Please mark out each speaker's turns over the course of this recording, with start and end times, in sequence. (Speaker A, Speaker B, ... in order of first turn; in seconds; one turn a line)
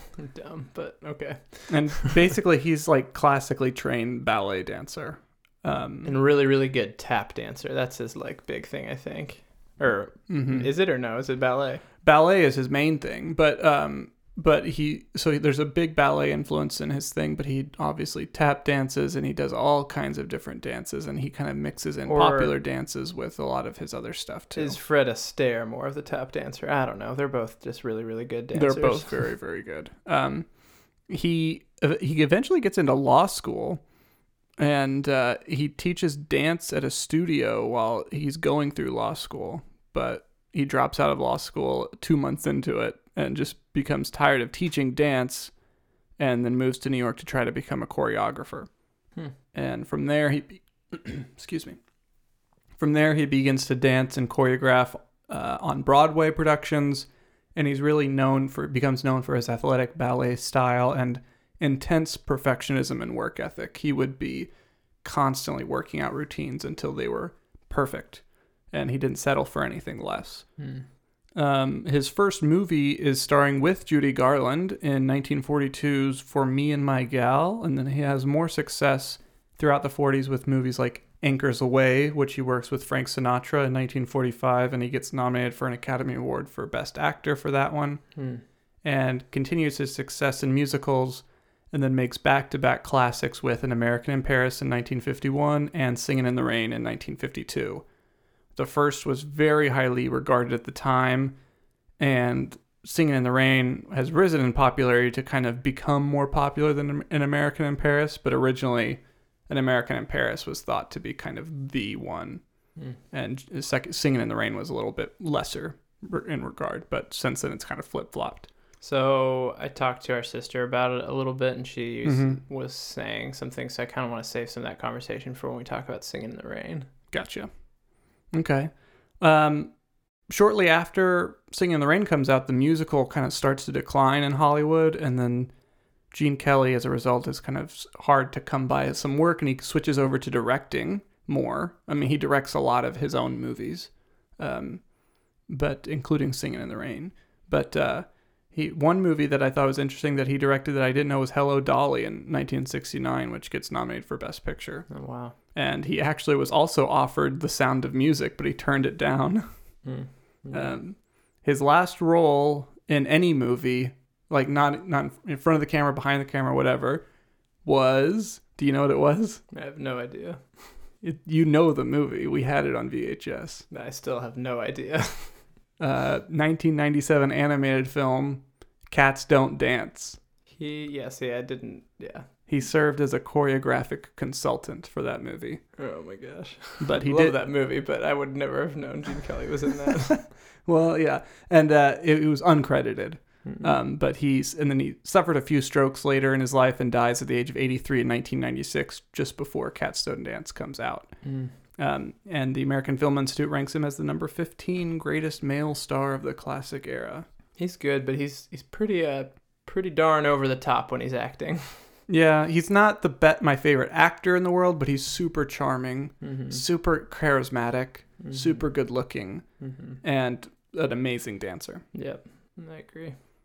Speaker A: 0.2-2.1
Speaker B: 1.7-6.1
Speaker A: 6.0-11.8
Speaker B: 10.3-10.7
Speaker B: 12.0-24.8
Speaker A: 22.1-22.6
Speaker A: 24.6-29.2
Speaker B: 28.5-33.9
Speaker B: 34.6-45.6
Speaker B: 46.2-51.9
Speaker B: 52.7-97.9
Speaker A: 70.6-70.9
Speaker A: 88.2-88.4
Speaker B: 98.5-101.4
Speaker B: 102.0-118.5
Speaker A: 118.8-126.9
Speaker B: 122.0-122.4
Speaker B: 127.1-135.6
Speaker B: 136.1-159.9
Speaker A: 154.9-155.4
Speaker A: 159.8-160.8
Speaker B: 160.5-167.1
Speaker B: 167.6-169.4
Speaker A: 169.5-170.8
Speaker B: 171.0-173.7
Speaker A: 173.7-175.5
Speaker B: 175.8-180.2
Speaker A: 180.5-182.3
Speaker B: 182.5-185.8
Speaker A: 185.8-190.3
Speaker B: 186.8-187.4
Speaker B: 190.6-207.3
Speaker A: 193.4-193.7
Speaker A: 201.2-201.6
Speaker A: 207.6-212.0
Speaker B: 212.1-221.9
Speaker A: 216.2-216.6
Speaker A: 218.2-219.0
Speaker A: 219.6-220.0
Speaker A: 221.9-223.2